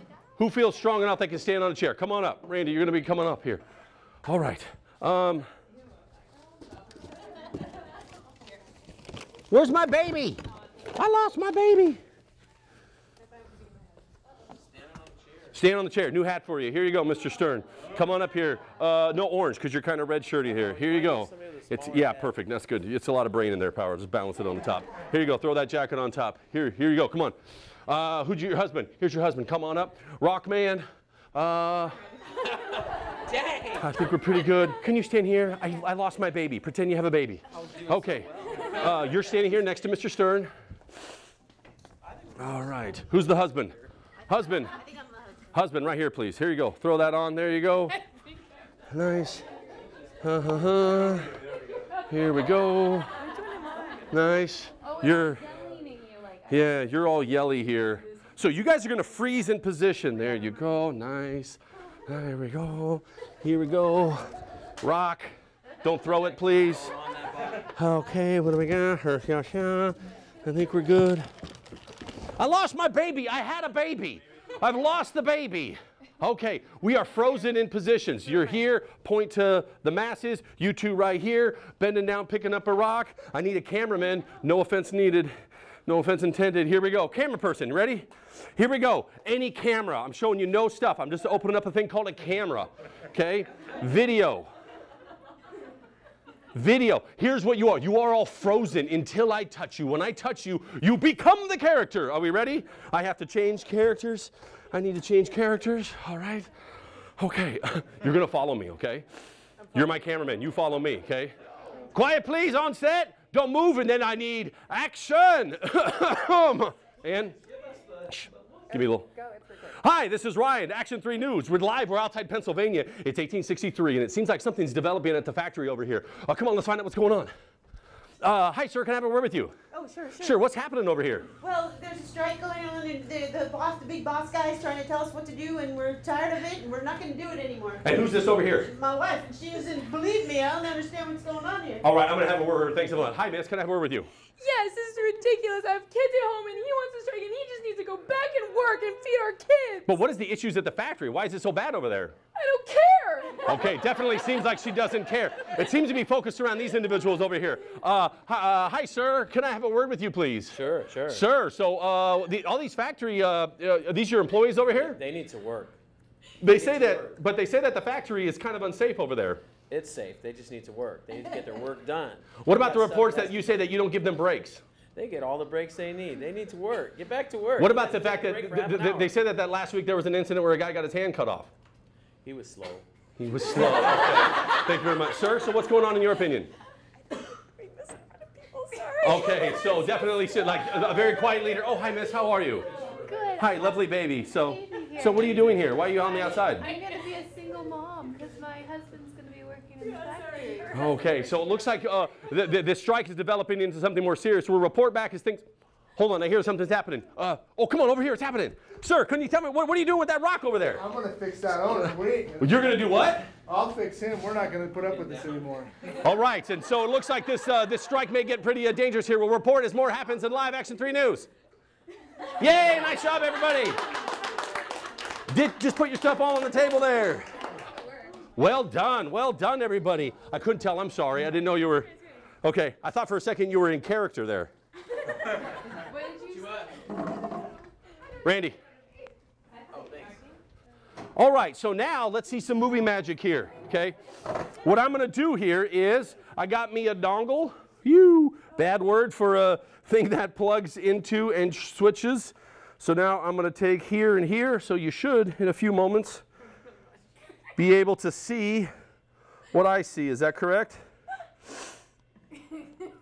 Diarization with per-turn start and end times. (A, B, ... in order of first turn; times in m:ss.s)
0:00.4-0:03.6 A
0:04.2-0:05.4 A
0:09.5-0:12.0 A
0:13.2-0:14.0 B
0:15.5-0:27.3 A
0:20.4-0:22.3 C
0:27.8-0:32.0 A
0:33.2-0:33.8 C
0:33.8-0:40.5 A
0:37.6-0:39.1 C
0:42.4-0:44.7 A
0:42.4-0:42.9 C
0:44.6-0:45.0 D
0:45.5-0:48.0 A
0:48.9-0:49.4 A
0:50.2-0:51.4 A
0:52.1-0:53.2 A
0:53.2-0:54.0 B
0:54.1-0:55.5 A
0:54.8-0:56.9 B
0:56.5-1:11.3 A
0:58.0-0:58.3 B
1:06.9-1:07.6 C
1:12.3-1:25.3 A
1:25.8-1:34.5 A
1:36.5-1:46.5 A
1:47.2-1:49.0 A
1:49.6-1:50.0 B
1:49.7-1:51.4 A
1:51.9-1:57.4 A
1:58.0-1:59.1 A
1:58.7-1:59.7 B
1:59.6-2:07.3 A
2:08.2-2:09.6 A
2:09.7-2:10.4 D
2:10.2-2:11.3 A
2:11.4-2:17.9 D
2:17.8-2:18.7 A
2:18.6-2:21.8 D
2:21.8-2:24.1 A
2:24.4-2:29.9 E
2:29.8-2:32.2 A
2:32.4-2:33.7 E
2:33.4-2:45.0 A
2:40.5-2:41.2 C
2:44.8-2:45.7 C
2:46.4-2:49.4 A
2:46.4-2:47.2 C
2:49.7-2:53.6 C
2:52.4-2:54.6 A
2:54.9-2:59.1 C
2:57.6-3:01.5 A
3:02.2-3:02.9 C
3:03.2-3:06.5 A
3:03.4-3:04.6 C
3:09.0-3:12.7 A
3:13.1-3:13.5 E
3:13.4-3:16.7 A
3:14.8-3:15.1 E
3:15.4-3:15.7 C
3:16.6-3:16.9 B
3:16.7-3:17.0 D
3:19.9-3:21.0 B
3:20.1-3:20.6 D
3:20.7-3:25.4 A
3:26.0-3:30.8 A
3:30.7-3:32.9 F
3:32.4-3:33.3 A
3:33.4-3:35.9 F
3:36.0-3:41.3 A
3:42.4-3:43.8 A
3:45.3-3:47.3 A
3:48.3-3:51.9 A
3:52.4-3:54.5 A
3:55.9-3:56.6 B
3:58.2-3:58.6 A
4:01.1-4:04.0 A
4:04.6-4:16.2 A
4:17.6-4:18.7 A
4:19.5-4:20.8 A